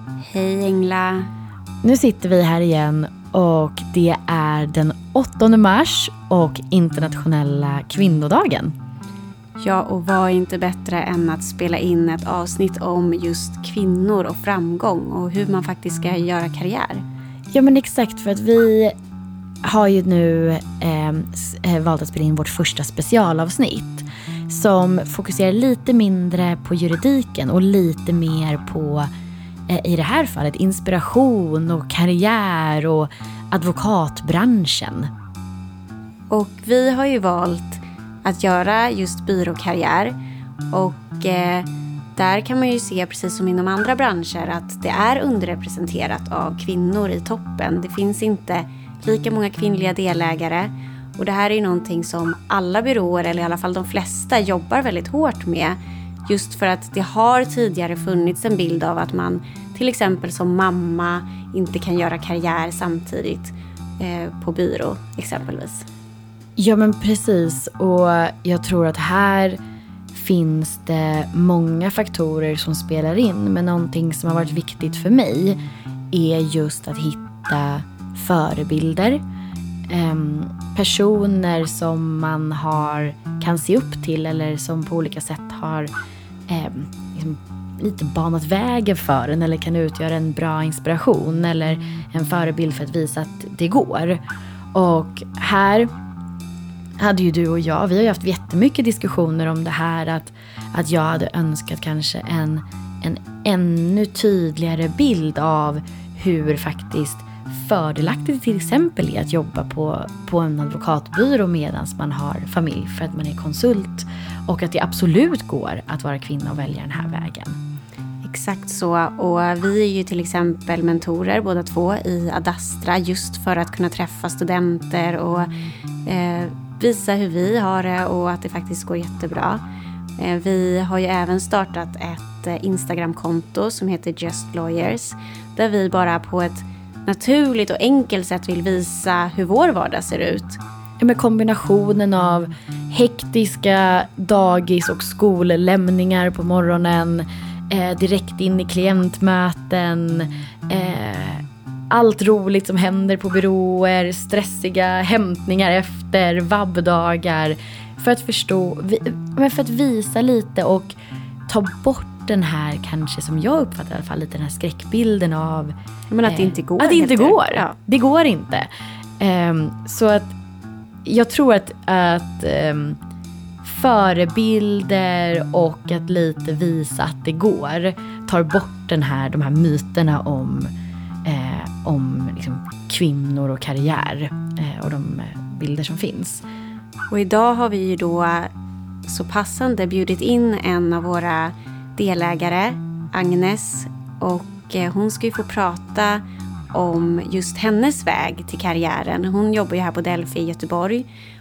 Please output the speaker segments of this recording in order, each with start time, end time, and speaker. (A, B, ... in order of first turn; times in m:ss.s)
0:00.2-0:01.3 A
0:01.8-0:08.8 B
0:09.6-0:17.0 A
0:17.5-0:19.0 B
0:19.6-0:29.1 B
0:29.7-0:35.1 B
0:36.3-0:40.2 A
0:40.7-1:05.9 A
1:06.6-1:09.6 B
1:10.1-1:15.6 B
1:16.1-1:19.2 B
1:19.9-1:25.9 B
1:26.5-1:34.2 B
1:34.7-1:35.9 B
1:37.0-1:57.6 B
1:58.2-2:05.5 A
2:06.0-2:09.6 A
2:10.2-2:20.6 A
2:21.0-2:40.9 B
2:41.5-2:50.4 B
2:46.1-2:47.8 A
2:51.0-2:53.0 B
2:53.6-3:00.7 B
3:01.2-3:06.4 B
3:07.1-3:08.5 A
3:09.1-3:21.1 A